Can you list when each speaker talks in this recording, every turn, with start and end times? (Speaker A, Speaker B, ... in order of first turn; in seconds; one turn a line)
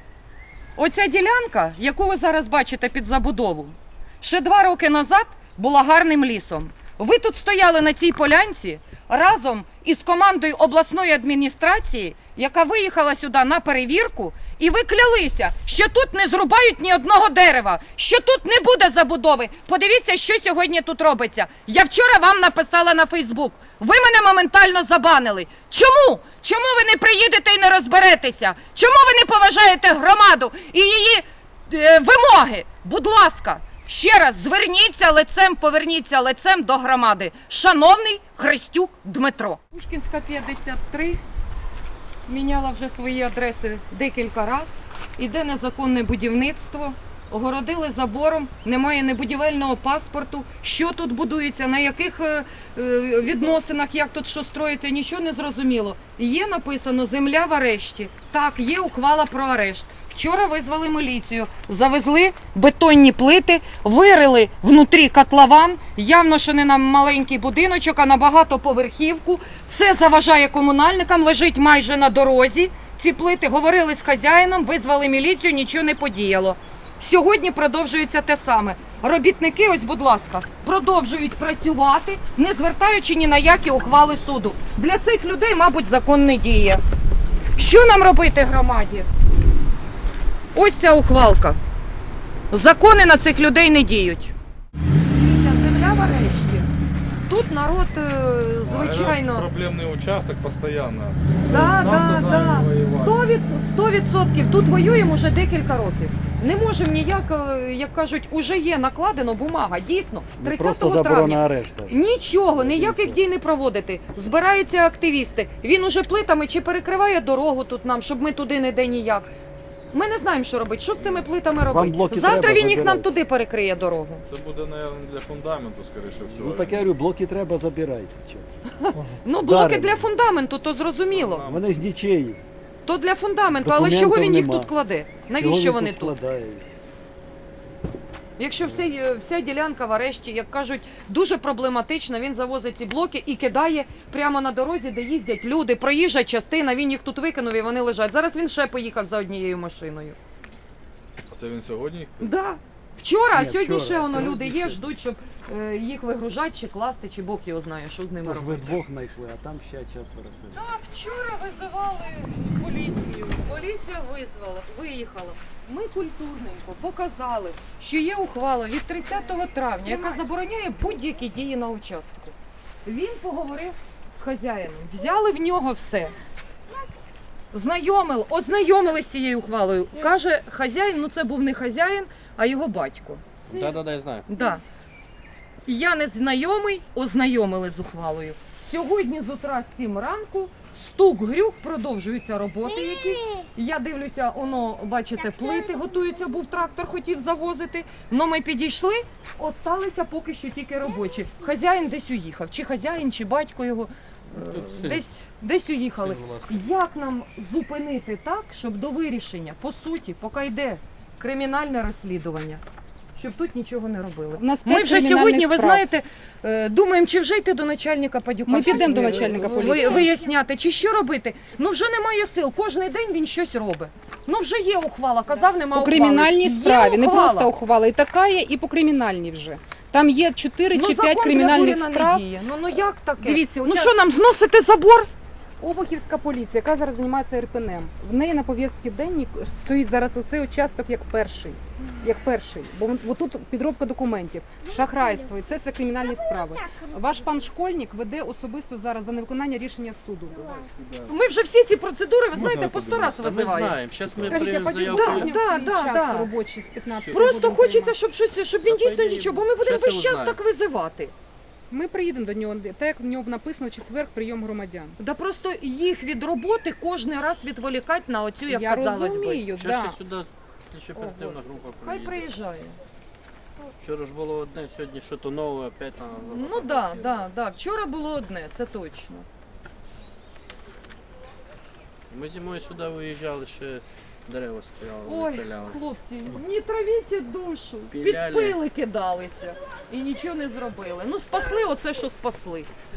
Speaker A: 0.8-41.2
Speaker A: 42.3-86.8
Speaker A: 87.6-89.1
Speaker A: 90.5-91.6
Speaker A: 92.5-94.3
Speaker A: 95.1-96.7
Speaker A: 97.3-99.5
Speaker B: 98.6-103.2
Speaker A: 101.5-119.3
Speaker C: 110.4-112.0
Speaker C: 112.5-113.2
Speaker A: 119.9-124.2
Speaker C: 121.7-123.1
Speaker B: 124.3-126.8
Speaker C: 126.3-128.5
Speaker A: 128.8-131.5
Speaker C: 129.3-130.1
Speaker B: 131.1-131.6
Speaker C: 131.4-132.4
Speaker A: 132.8-136.1
Speaker C: 133.5-134.7
Speaker C: 135.4-136.7
Speaker A: 138.4-150.2
Speaker B: 151.3-152.3
Speaker A: 152.2-158.8
Speaker C: 153.3-154.8
Speaker C: 158.2-160.6
Speaker A: 160.5-172.3
Speaker A: 172.8-176.1
Speaker A: 177.5-183.7
Speaker D: 183.5-184.2
Speaker A: 184.3-184.6
Speaker A: 185.7-212.6
Speaker D: 204.4-205.0
Speaker D: 206.0-206.6
Speaker A: 213.1-227.5
Speaker E: 214.4-215.8
Speaker E: 218.4-220.1
Speaker C: 218.7-219.4
Speaker E: 225.7-232.2
Speaker A: 230.7-235.1
Speaker E: 233.2-234.0
Speaker E: 235.6-250.4
Speaker B: 250.4-251.1
Speaker A: 251.1-253.8
Speaker B: 252.3-253.1
Speaker D: 253.2-255.4
Speaker E: 254.2-258.0
Speaker A: 254.8-256.3
Speaker D: 256.9-257.4
Speaker A: 257.1-261.1
Speaker D: 258.6-260.4
Speaker E: 261.7-265.0
Speaker A: 265.0-269.5
Speaker E: 268.5-270.0
Speaker D: 269.5-272.3
Speaker A: 270.9-272.8
Speaker D: 273.8-277.1
Speaker A: 276.2-279.3
Speaker D: 282.1-285.8
Speaker A: 285.0-292.7
Speaker D: 287.9-288.6